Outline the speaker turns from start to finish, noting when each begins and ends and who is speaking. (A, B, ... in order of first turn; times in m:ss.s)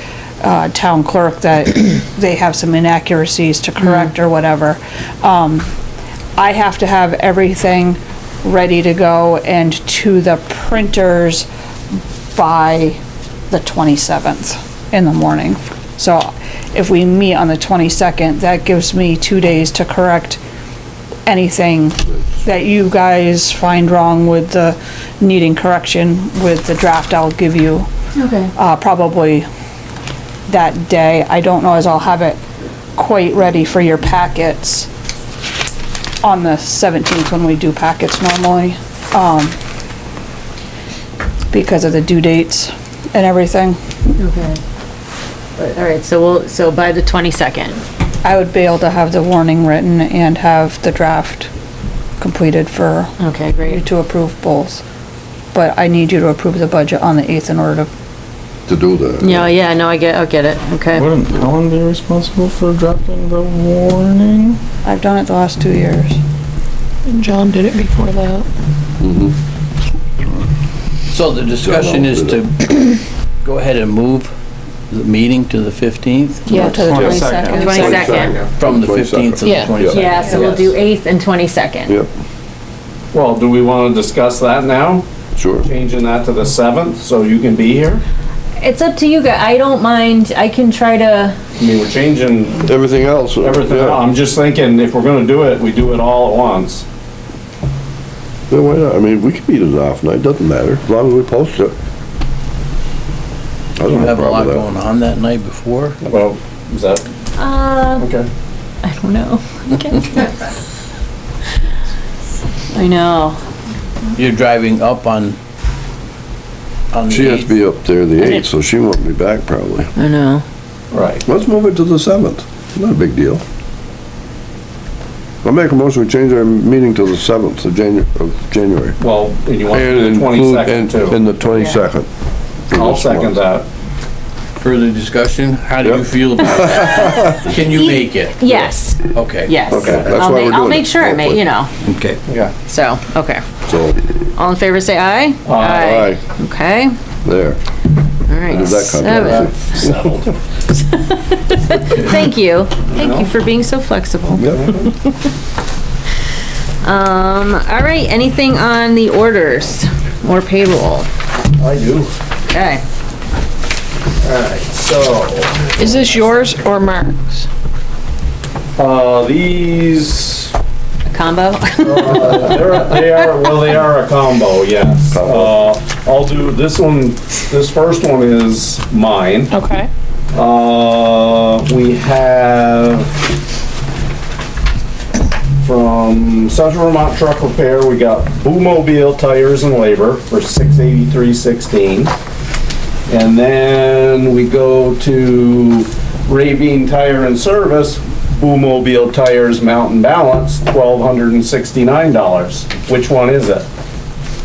0:00.4-0:05.7 A
0:06.4-0:11.5 A
0:12.3-0:20.4 A
0:21.3-0:27.9 A
0:28.2-0:28.5 B
0:28.6-0:29.5 A
0:30.5-0:32.4 A
0:33.0-0:34.9 A
0:36.2-0:39.6 A
0:41.5-0:43.8 A
0:44.2-0:44.6 B
0:45.6-0:47.8 B
0:48.2-0:51.5 A
0:52.2-0:54.8 A
0:53.2-0:53.8 B
0:55.5-0:57.9 A
0:58.7-0:59.5 C
0:59.2-1:01.1 B
1:00.9-1:04.6 D
1:04.8-1:06.2 A
1:07.1-1:08.5 E
1:09.0-1:09.3 C
1:11.1-1:14.3 F
1:11.6-1:12.4 C
1:14.9-1:16.7 F
1:16.5-1:16.8 E
1:16.5-1:18.2 A
1:16.8-1:18.3 D
1:16.9-1:20.0 C
1:17.5-1:18.4 B
1:18.2-1:18.5 G
1:18.6-1:20.3 F
1:19.4-1:19.8 E
1:19.8-1:22.0 B
1:20.3-1:20.7 G
1:21.9-1:22.1 C
1:23.1-1:25.1 G
1:25.4-1:25.7 C
1:25.6-1:28.0 G
1:28.6-1:31.4 B
1:31.6-1:32.7 G
1:32.6-1:34.0 C
1:33.4-1:36.8 G
1:38.5-1:41.8 C
1:43.8-1:44.7 C
1:43.8-1:46.0 F
1:46.0-1:47.1 G
1:47.4-1:48.1 B
1:48.0-1:48.3 G
1:48.8-1:50.5 B
1:52.7-1:53.4 B
1:54.2-1:55.4 F
1:56.9-1:57.6 F
1:57.1-1:59.9 C
1:58.2-1:58.5 B
2:00.0-2:00.4 B
2:00.9-2:01.2 G
2:01.3-2:03.4 C
2:05.4-2:09.0 C
2:09.0-2:11.2 G
2:09.7-2:12.1 C
2:11.6-2:11.8 B
2:12.7-2:13.4 C
2:12.7-2:13.7 G
2:14.6-2:18.4 F
2:15.8-2:17.3 C
2:17.6-2:21.7 B
2:19.1-2:20.0 F
2:19.7-2:21.5 C
2:19.7-2:20.1 G
2:21.8-2:22.2 F
2:22.3-2:22.5 G
2:22.7-2:23.4 B
2:23.7-2:24.0 C
2:24.4-2:26.9 B
2:25.5-2:25.9 G
2:25.7-2:26.2 C
2:27.2-2:27.6 C
2:28.3-2:30.1 B
2:28.4-2:29.8 C
2:29.2-2:30.2 G
2:30.7-2:34.4 B
2:32.9-2:33.3 G
2:34.4-2:34.9 G
2:34.4-2:34.7 C
2:36.8-2:41.1 B
2:41.6-2:42.1 G
2:42.5-2:42.8 B
2:44.2-2:46.3 G
2:45.8-2:47.5 E
2:48.8-2:50.5 G
2:51.1-2:53.0 B
2:51.8-2:59.5 G
2:55.1-2:55.5 C
2:59.5-2:59.9 E
3:00.3-3:03.2 G
3:05.6-3:12.1 G
3:13.1-3:23.7 G